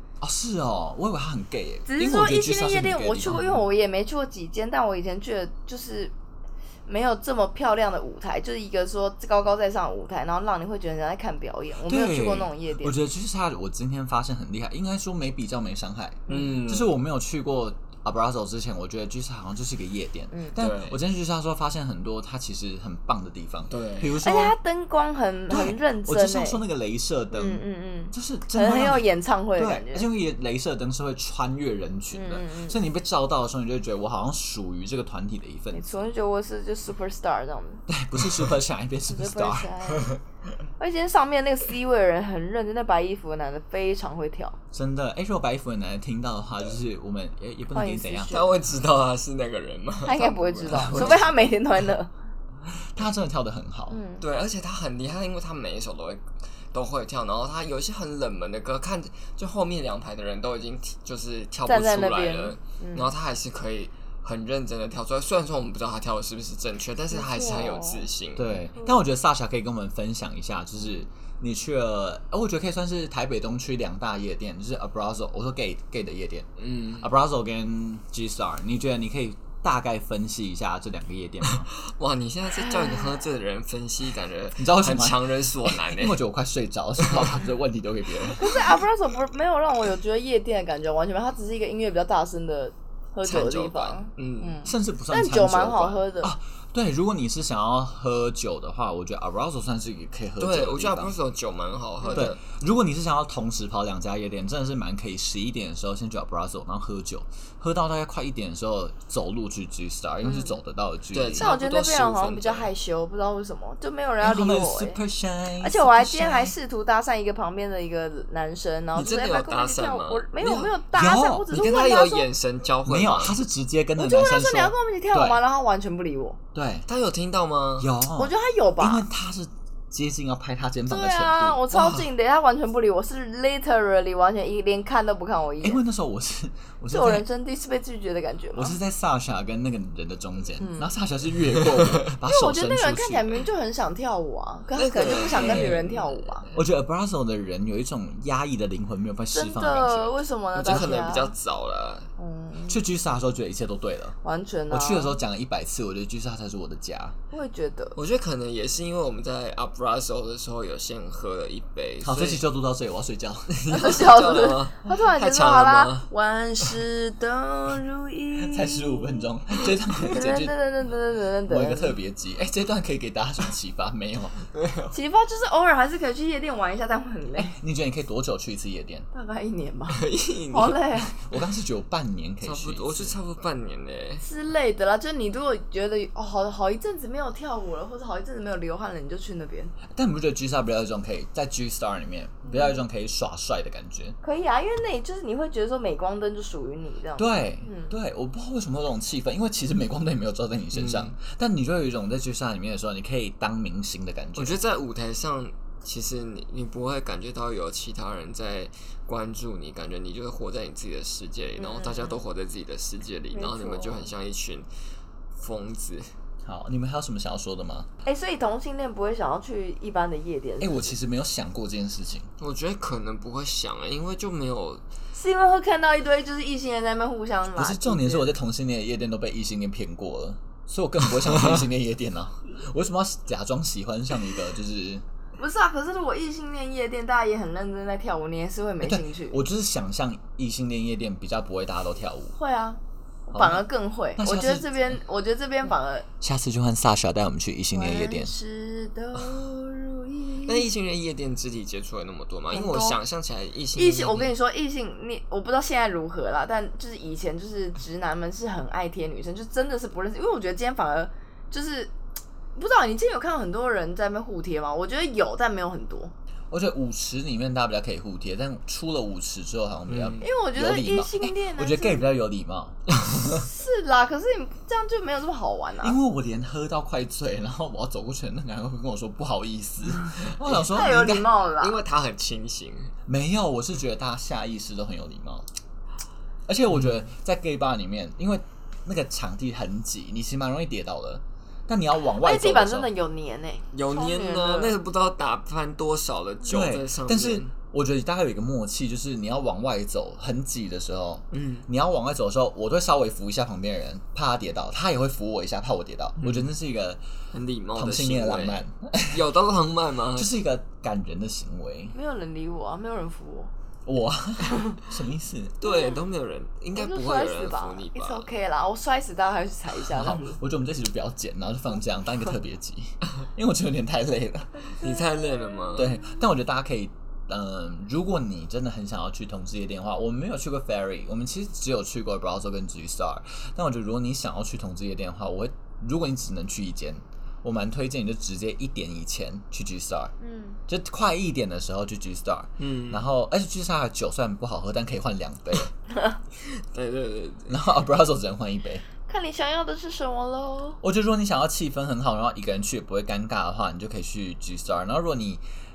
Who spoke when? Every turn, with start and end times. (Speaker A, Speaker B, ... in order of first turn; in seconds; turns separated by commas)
Speaker A: 0.2-3.5, Speaker B: 1.9-6.1, Speaker B: 6.8-13.0, Speaker A: 11.8-24.6, Speaker B: 16.3-16.6, Speaker C: 16.3-17.0, Speaker B: 20.3-20.6, Speaker C: 20.6-21.0, Speaker C: 23.7-24.1, Speaker B: 24.2-26.6, Speaker A: 25.5-36.1, Speaker B: 27.3-30.1, Speaker B: 32.1-32.8, Speaker B: 35.7-37.8, Speaker A: 37.9-39.7, Speaker B: 39.1-40.2, Speaker C: 39.9-40.2, Speaker B: 40.8-44.5, Speaker A: 44.7-48.5, Speaker B: 47.7-48.6, Speaker C: 48.3-51.4, Speaker B: 50.0-52.1, Speaker A: 50.7-51.2, Speaker A: 52.8-54.0, Speaker B: 53.9-54.2, Speaker C: 54.2-68.5, Speaker B: 61.6-63.1, Speaker B: 67.1-68.1, Speaker A: 68.3-76.5, Speaker C: 76.6-77.1, Speaker A: 77.0-81.7, Speaker C: 81.8-86.2, Speaker A: 84.6-88.6, Speaker B: 88.4-96.3, Speaker C: 93.2-94.6, Speaker A: 94.6-101.1, Speaker C: 100.4-102.4, Speaker B: 102.0-102.3, Speaker A: 102.1-111.4, Speaker B: 110.2-110.6, Speaker C: 111.1-112.7, Speaker B: 111.3-115.0, Speaker A: 114.2-116.5, Speaker B: 115.6-122.3, Speaker C: 118.9-120.8, Speaker A: 120.9-121.5, Speaker C: 121.5-123.3, Speaker A: 122.8-125.4, Speaker B: 124.0-126.4, Speaker A: 126.5-126.8, Speaker C: 126.9-127.9, Speaker A: 127.8-131.7, Speaker B: 128.1-129.1, Speaker B: 130.9-135.8, Speaker C: 131.7-132.0, Speaker A: 135.6-137.2, Speaker B: 136.9-138.8, Speaker A: 138.5-143.4, Speaker B: 140.6-140.9, Speaker B: 142.2-146.4, Speaker C: 144.8-146.7, Speaker A: 145.2-145.8, Speaker A: 146.5-150.9, Speaker B: 149.3-151.3, Speaker C: 150.5-152.1, Speaker B: 152.2-152.8, Speaker A: 152.7-154.2, Speaker B: 154.2-155.2, Speaker A: 154.7-157.2, Speaker B: 157.3-157.9, Speaker C: 157.9-162.4, Speaker A: 162.0-164.0, Speaker C: 163.7-166.1, Speaker B: 163.7-169.3, Speaker A: 168.4-170.6, Speaker B: 170.0-172.0, Speaker A: 171.5-174.4, Speaker C: 174.5-174.9, Speaker B: 174.9-177.5, Speaker A: 177.3-179.1, Speaker B: 179.1-181.2, Speaker C: 179.9-181.4, Speaker A: 181.2-183.2, Speaker C: 182.4-184.2, Speaker B: 184.2-189.7, Speaker A: 189.9-194.2, Speaker B: 192.4-192.8, Speaker B: 194.2-197.9, Speaker A: 197.2-204.6, Speaker C: 200.7-201.1, Speaker C: 204.3-214.7, Speaker B: 211.6-212.2, Speaker B: 213.3-214.1, Speaker C: 215.3-216.1, Speaker A: 216.4-217.9, Speaker B: 218.0-220.9, Speaker A: 220.6-222.3, Speaker C: 222.4-224.8, Speaker B: 225.1-228.3, Speaker A: 227.5-235.0, Speaker B: 235.4-239.4, Speaker A: 238.8-242.3, Speaker B: 242.3-246.1, Speaker A: 243.3-243.6, Speaker A: 244.2-245.0, Speaker A: 246.2-248.3, Speaker B: 247.7-250.7, Speaker C: 250.4-254.3, Speaker B: 252.5-253.0, Speaker B: 253.7-261.9, Speaker B: 262.5-266.1, Speaker A: 266.5-272.8, Speaker C: 269.9-270.3, Speaker B: 270.2-272.1, Speaker B: 273.3-276.0, Speaker A: 275.8-281.3, Speaker C: 280.4-282.9, Speaker B: 280.6-281.8, Speaker A: 283.1-285.4, Speaker A: 286.5-292.9, Speaker B: 292.2-294.8, Speaker C: 293.7-297.5, Speaker A: 296.5-307.0, Speaker C: 301.3-301.7, Speaker C: 306.2-306.5, Speaker C: 307.3-310.4, Speaker A: 307.7-309.2, Speaker A: 310.1-311.9, Speaker B: 311.9-313.5, Speaker A: 313.9-315.6, Speaker C: 315.6-318.3, Speaker B: 315.6-316.0, Speaker B: 316.7-320.4, Speaker A: 319.9-324.8, Speaker C: 324.7-326.0, Speaker A: 325.7-340.1, Speaker B: 340.2-340.6, Speaker A: 340.7-345.7, Speaker C: 342.6-343.0, Speaker C: 346.4-347.6, Speaker A: 347.5-348.8, Speaker B: 349.1-350.8, Speaker A: 350.8-355.4